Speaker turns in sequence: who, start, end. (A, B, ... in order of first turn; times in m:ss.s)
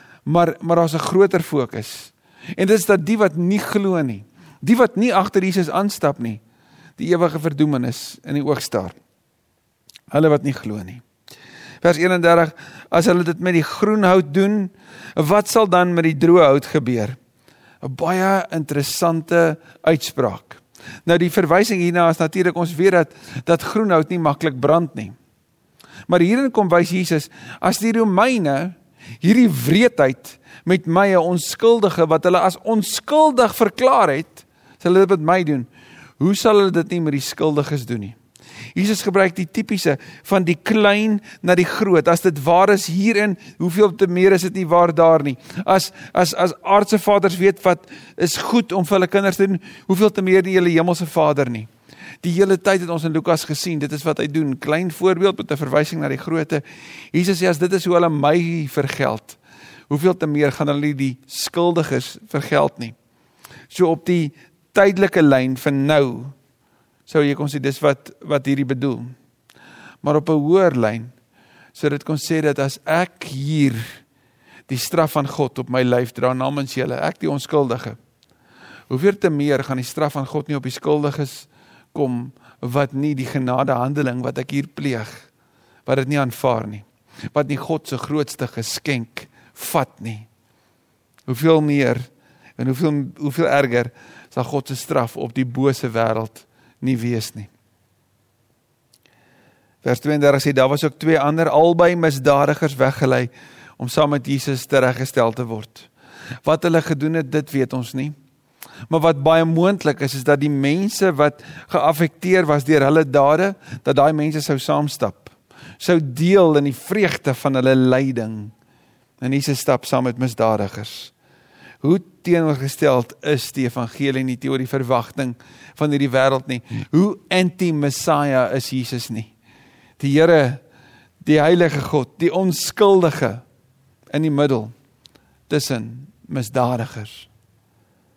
0:00.3-0:06.4 A
0:07.0-0:09.0 A
0:10.1-0:11.0 A
0:11.8-0:17.2 A
0:17.8-0:25.2 A
0:26.1-0:38.2 A
0:38.8-0:51.7 A
0:52.2-1:03.0 A
1:03.7-1:06.4 A
1:07.1-1:09.2 A
1:10.0-1:11.1 A
1:11.7-1:14.0 A
1:14.7-1:18.0 A
1:18.9-1:25.3 A
1:25.9-1:30.3 A
1:31.3-1:37.5 A
1:39.8-1:45.9 A
1:46.4-1:48.2 A
1:48.9-1:58.5 A
1:59.2-2:01.1 A
2:01.8-2:09.3 A
2:10.0-2:10.6 A
2:11.2-2:13.4 A
2:14.1-2:14.7 A
2:15.5-2:17.3 A